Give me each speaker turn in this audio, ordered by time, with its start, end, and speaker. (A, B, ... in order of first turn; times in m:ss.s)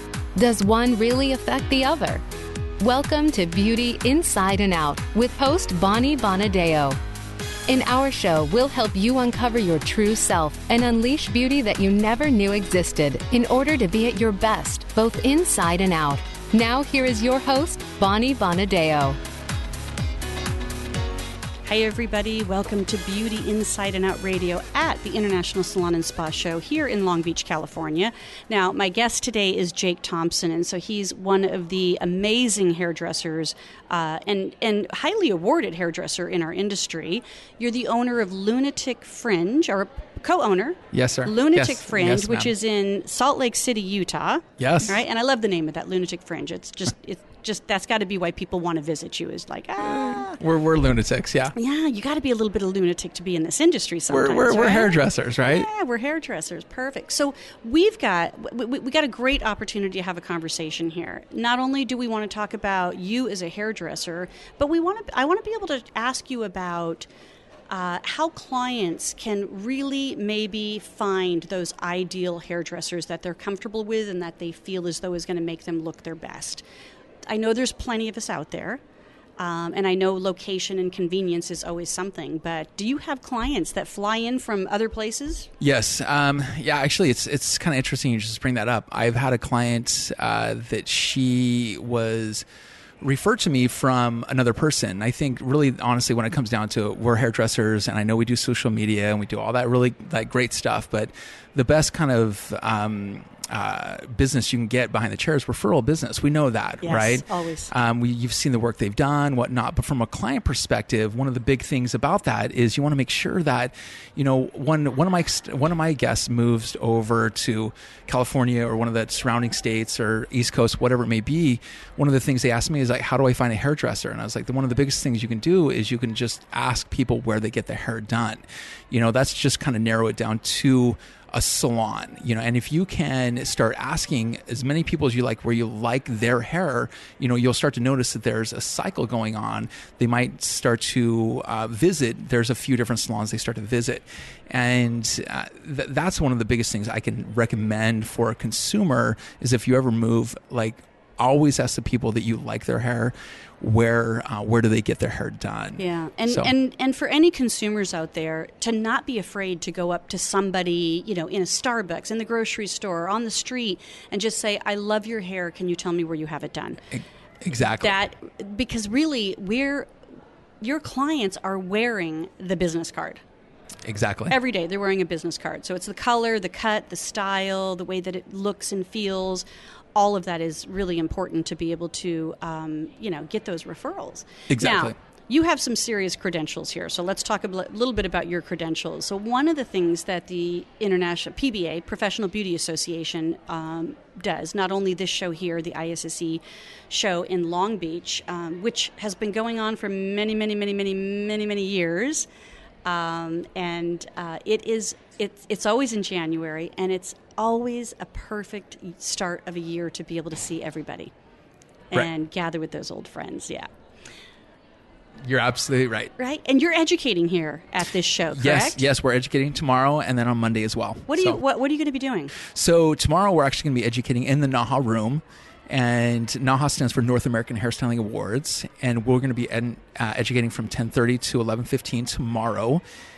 0:00.4-0:02.2 A
0:02.8-0:07.0 A
0:07.7-0:19.2 A
0:21.6-0:50.4 B
0:40.9-0:42.5 C
0:44.6-0:45.0 C
0:49.8-0:51.5 C
0:51.5-1:07.1 B
0:54.1-0:55.7 C
1:07.7-1:16.6 B
1:17.3-1:18.8 B
1:19.4-1:25.5 B
1:25.6-1:32.4 C
1:33.0-2:36.5 C
1:46.8-1:47.7 B
2:35.8-2:46.8 B
2:46.9-2:48.0 C
2:47.6-2:49.9 B
2:50.6-2:53.2 B
2:53.8-2:54.4 C
2:54.3-3:22.3 B
3:04.5-3:04.9 C
3:22.8-3:31.1 B
3:31.9-3:33.7 B
3:35.2-3:36.1 C
3:36.2-3:38.8 B
3:38.3-3:41.4 C
3:41.1-3:42.3 B
3:42.4-3:52.8 C